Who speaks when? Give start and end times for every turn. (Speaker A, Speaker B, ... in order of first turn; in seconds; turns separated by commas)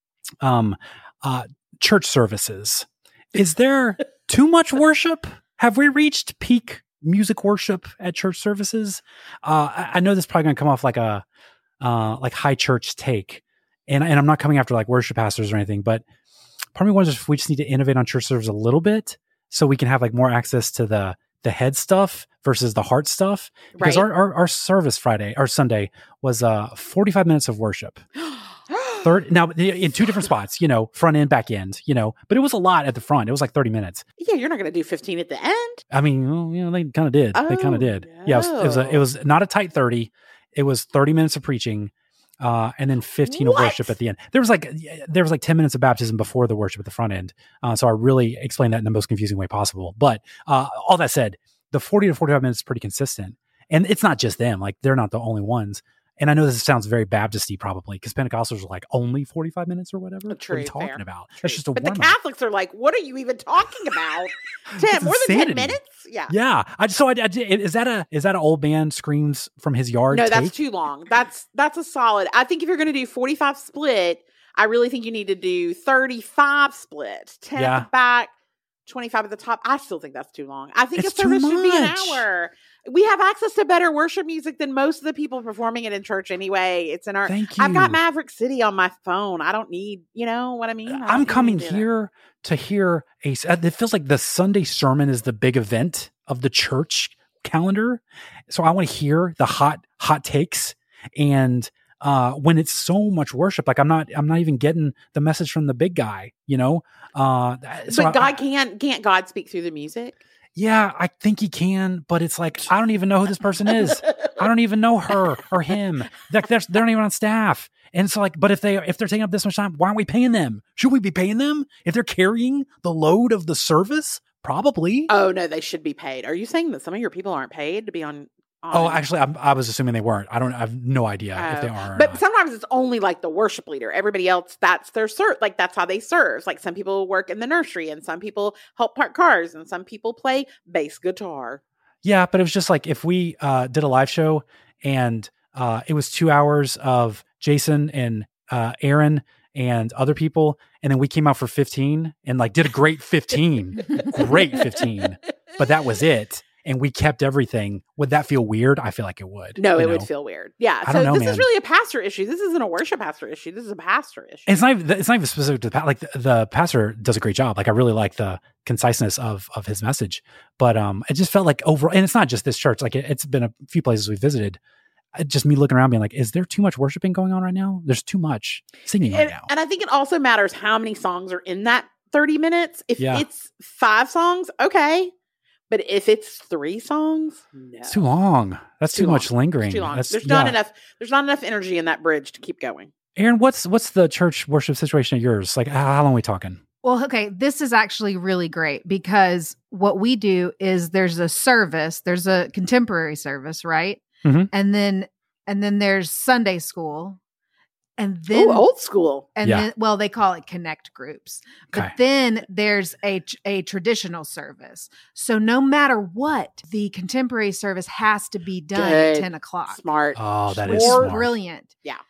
Speaker A: 0.4-11.2, Speaker A: 11.8-16.0, Speaker A: 16.8-28.0, Speaker B: 23.8-24.1, Speaker B: 28.2-29.1, Speaker A: 29.0-34.0, Speaker B: 34.2-35.8, Speaker A: 35.9-62.1, Speaker B: 37.4-39.0, Speaker B: 43.3-44.0, Speaker B: 60.3-66.3, Speaker A: 64.8-70.5, Speaker B: 70.1-78.3, Speaker A: 77.6-77.9, Speaker B: 78.9-91.9, Speaker A: 81.0-82.2, Speaker A: 87.3-88.0, Speaker A: 90.9-108.3, Speaker B: 107.9-110.2, Speaker A: 110.5-125.1, Speaker B: 125.1-129.0, Speaker A: 128.7-132.2, Speaker B: 131.4-141.6, Speaker A: 142.0-160.1, Speaker B: 159.6-164.5, Speaker A: 160.8-161.5, Speaker A: 164.5-174.6, Speaker A: 175.2-179.5, Speaker B: 179.1-185.1, Speaker A: 183.0-183.3, Speaker B: 185.7-188.1, Speaker A: 187.9-190.6, Speaker B: 188.9-192.9, Speaker A: 193.2-196.6, Speaker C: 196.8-207.2, Speaker A: 204.2-204.5, Speaker C: 208.0-208.7, Speaker B: 208.3-209.3, Speaker C: 209.4-219.8, Speaker B: 218.7-221.2, Speaker A: 220.2-221.3, Speaker C: 220.6-221.8